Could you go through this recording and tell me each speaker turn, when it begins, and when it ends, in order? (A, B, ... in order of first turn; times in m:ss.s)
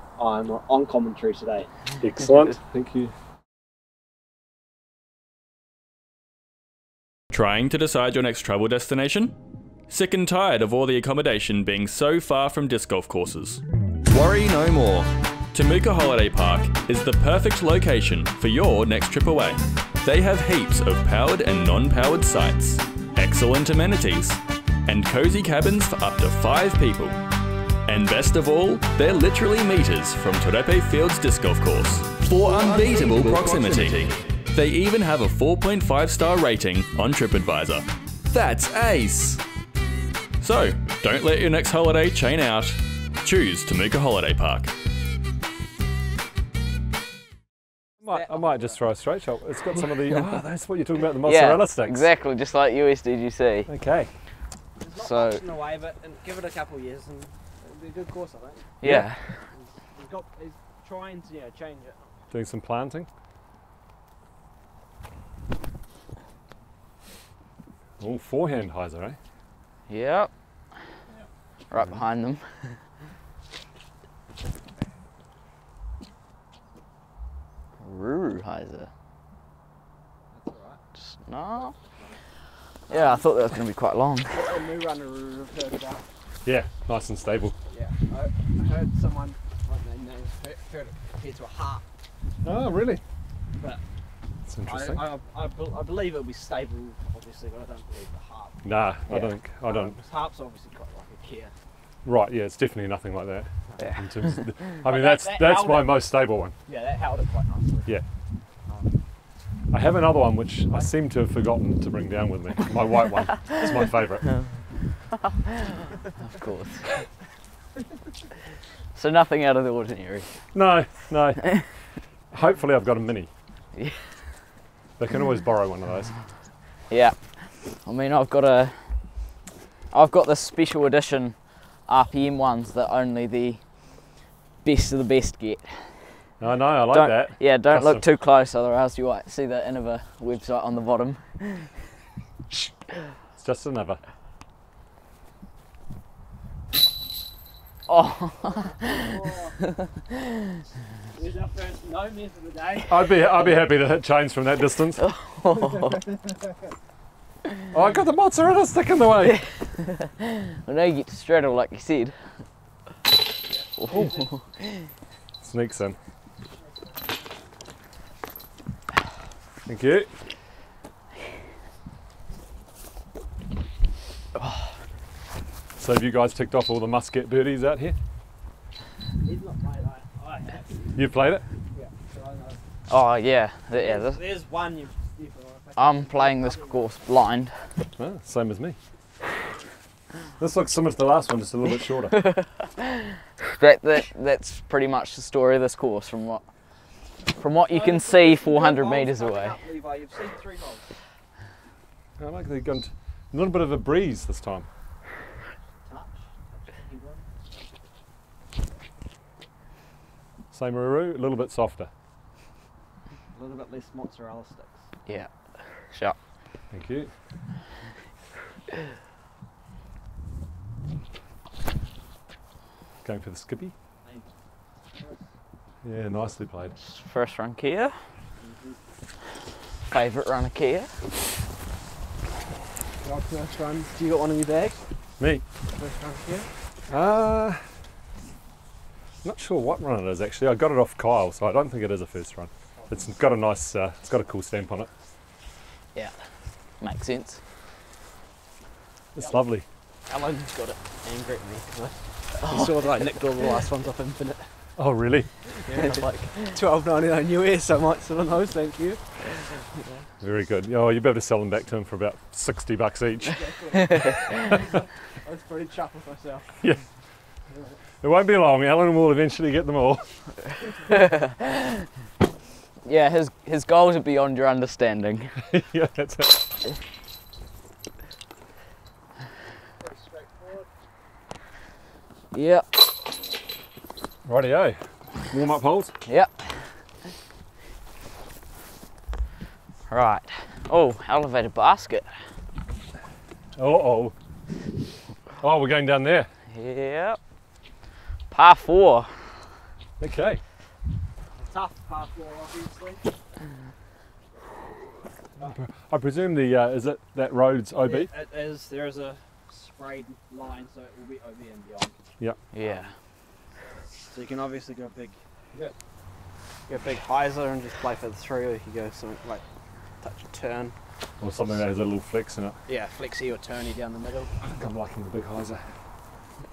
0:00.2-0:01.7 A
0:02.0-0:03.1 B
0:07.3-0:09.4 C
0:09.9-0:27.2 C
0:27.8-0:39.4 C
0:32.4-0:33.9 A
0:40.4-0:44.7 C
0:48.0-0:52.1 B
0:48.1-0:48.8 A
0:51.2-0:53.7 D
0:53.7-0:54.1 B
0:54.8-0:58.7 A
0:55.0-0:55.4 D
0:58.8-0:59.5 D
0:58.8-0:59.1 B
0:59.3-1:02.2 A
1:02.3-1:03.1 B
1:08.0-1:09.2 B
1:09.9-1:10.3 D
1:11.7-1:12.4 D
1:17.8-1:18.9 D
1:20.3-1:20.8 A
1:21.2-1:21.7 D
1:21.7-1:22.2 A
1:22.9-1:23.3 A
1:22.9-1:24.5 D
1:24.3-1:26.1 A
1:26.4-1:27.6 B
1:27.7-1:31.8 A
1:32.4-1:33.0 B
1:34.4-1:35.0 B
1:34.6-1:41.5 A
1:38.6-1:40.0 B
1:42.0-1:46.5 B
1:43.7-1:44.0 A
1:43.8-1:44.4 D
1:44.8-1:46.0 A
1:46.6-1:47.9 A
1:49.7-1:54.4 B
1:56.2-1:56.8 D
1:58.9-2:00.5 D
2:00.5-2:03.3 B
2:03.8-2:04.1 D
2:05.0-2:06.2 B
2:06.9-2:09.3 D
2:09.9-2:14.1 D
2:14.6-2:16.3 D
2:16.4-2:18.0 B
2:16.9-2:21.8 D
2:23.4-2:24.0 B
2:27.9-2:29.1 D
2:28.4-2:29.6 A
2:31.1-2:33.2 A
2:32.9-2:35.0 B
2:35.0-2:36.0 D
2:35.6-2:36.6 A
2:37.7-2:39.4 B
2:39.2-2:42.4 D
2:43.4-2:44.4 A
2:43.8-2:44.7 D
2:45.4-2:46.0 B
2:46.4-2:47.1 A
2:49.6-2:50.1 B
2:54.4-2:54.7 D
2:55.8-2:58.0 B
2:59.2-3:00.9 A
3:00.9-3:01.4 B
3:01.7-3:02.6 A
3:02.9-3:04.2 D
3:03.7-3:07.1 A
3:05.8-3:07.8 D
3:08.0-3:08.8 B
3:10.4-3:12.3 B
3:12.2-3:12.8 D
3:13.5-3:16.4 D
3:17.4-3:19.6 D
3:17.7-3:20.9 A
3:22.2-3:24.7 B
3:25.8-3:27.2 A
3:30.5-3:31.9 B
3:33.3-3:34.8 A
3:35.9-3:36.2 D
3:36.7-3:37.1 B
3:43.0-3:43.7 B
3:44.0-3:44.3 A
3:44.9-3:45.3 A
3:45.8-3:46.7 B
3:46.8-3:48.0 D
3:48.4-3:48.8 A
3:49.9-3:50.9 D
3:53.0-3:54.8 A
3:55.2-3:55.4 B
3:55.7-3:56.5 A
3:56.9-3:57.7 B
3:59.2-4:04.9 B
4:02.8-4:03.1 A
4:05.9-4:07.4 D
4:09.1-4:09.6 B
4:10.1-4:14.5 A
4:12.4-4:12.7 D
4:14.8-4:16.0 B
4:15.6-4:20.1 A
4:15.7-4:16.0 D
4:20.2-4:24.0 B
4:23.2-4:26.5 A
4:26.6-4:26.8 B
4:27.5-4:27.8 A
4:28.0-4:30.1 B
4:31.1-4:31.6 D
4:32.8-4:35.4 D
4:35.5-4:36.5 B
4:39.8-4:40.7 A
4:42.3-4:42.8 D
4:44.2-4:44.8 B
4:45.3-4:45.9 B
4:46.0-4:46.7 D
4:49.9-4:52.1 D
4:53.6-4:54.1 B
4:55.4-4:56.3 B
4:56.5-4:57.2 D
4:58.3-4:59.1 D
5:00.0-5:00.4 B
5:01.4-5:03.0 A
5:05.4-5:08.1 B
5:07.8-5:12.0 A
5:12.5-5:12.9 D
5:14.1-5:15.7 A
5:16.7-5:19.4 A
5:20.0-5:20.7 A
5:21.2-5:22.6 B
5:22.7-5:24.4 A
5:24.4-5:25.7 B